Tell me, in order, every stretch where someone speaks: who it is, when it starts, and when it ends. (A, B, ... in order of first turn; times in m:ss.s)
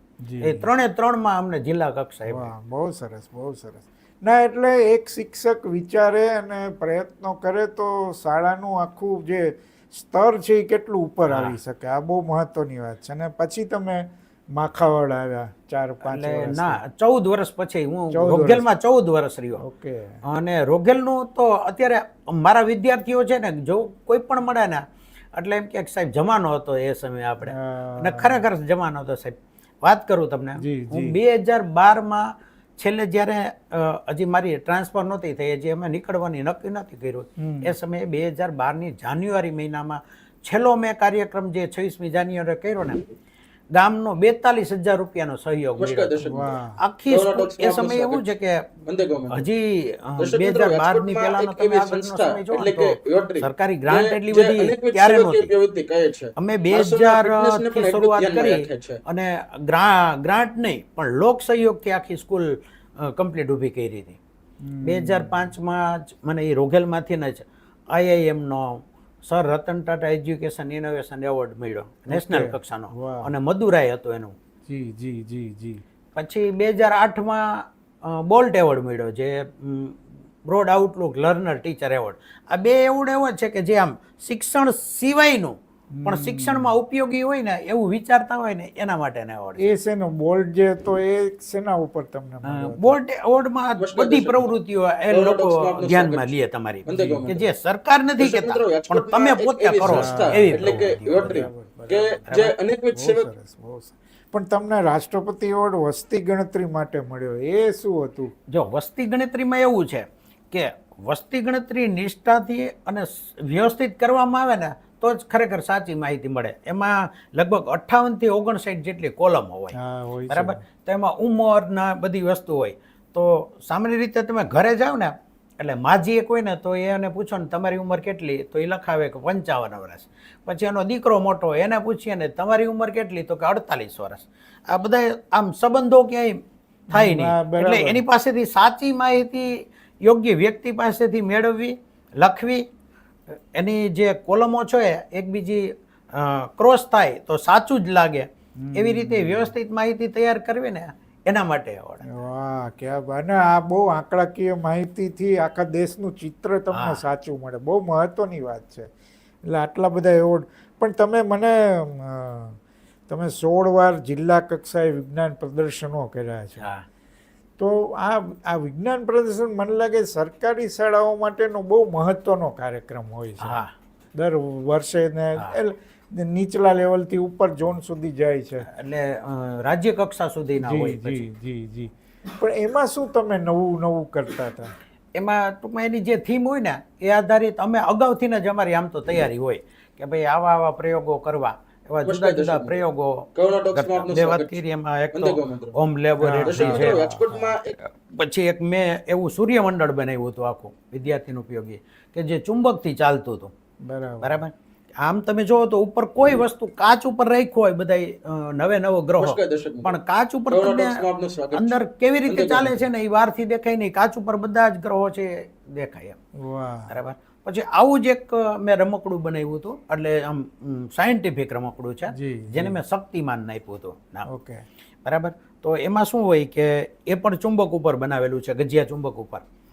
0:00.2-0:00.7 A
0:00.4-0:02.5 B
0:02.3-0:16.8 A
0:11.3-0:11.6 B
0:16.0-0:19.6 B
0:18.1-0:18.6 A
0:19.6-0:20.1 A
0:20.3-0:24.8 B
0:25.3-0:43.0 B
0:27.4-0:28.4 A
0:30.6-0:31.2 A
0:37.4-0:37.7 A
0:43.8-0:55.5 B
0:45.8-0:46.5 C
0:46.2-0:46.8 A
0:47.1-0:48.2 C
0:48.8-0:49.5 C
0:50.2-0:59.0 C
0:56.4-1:04.2 B
1:04.6-1:05.5 A
1:04.8-1:14.3 B
1:12.1-1:13.3 A
1:14.7-1:15.8 A
1:16.2-1:29.6 B
1:25.9-1:26.8 A
1:29.6-1:33.0 A
1:32.4-1:41.5 B
1:33.8-1:34.5 C
1:35.1-1:36.3 C
1:36.8-1:37.5 C
1:36.9-1:37.2 A
1:38.2-1:43.3 C
1:39.8-1:48.3 A
1:42.3-1:42.5 B
1:48.5-1:59.8 B
1:59.7-2:00.6 A
2:00.3-2:16.4 B
2:16.9-2:18.0 A
2:16.9-2:22.6 B
2:23.3-2:32.0 B
2:28.6-2:29.5 A
2:32.1-2:38.9 A
2:36.7-2:37.0 B
2:39.4-2:46.6 A
2:46.6-2:46.8 B
2:47.6-2:53.6 A
2:53.4-2:53.7 B
2:54.2-2:58.6 A
2:58.6-3:01.2 B
3:00.6-3:04.7 A
3:05.2-3:17.0 B
3:12.0-3:15.8 C
3:16.2-3:17.6 A
3:16.4-3:17.8 C
3:18.0-3:23.5 B
3:23.8-3:24.4 A
3:24.2-3:36.2 B
3:29.2-3:30.0 C
3:30.5-3:32.7 C
3:36.4-3:36.9 A
3:36.9-3:44.3 B
3:42.1-3:42.8 A
3:44.3-3:44.6 A
3:45.0-3:49.4 B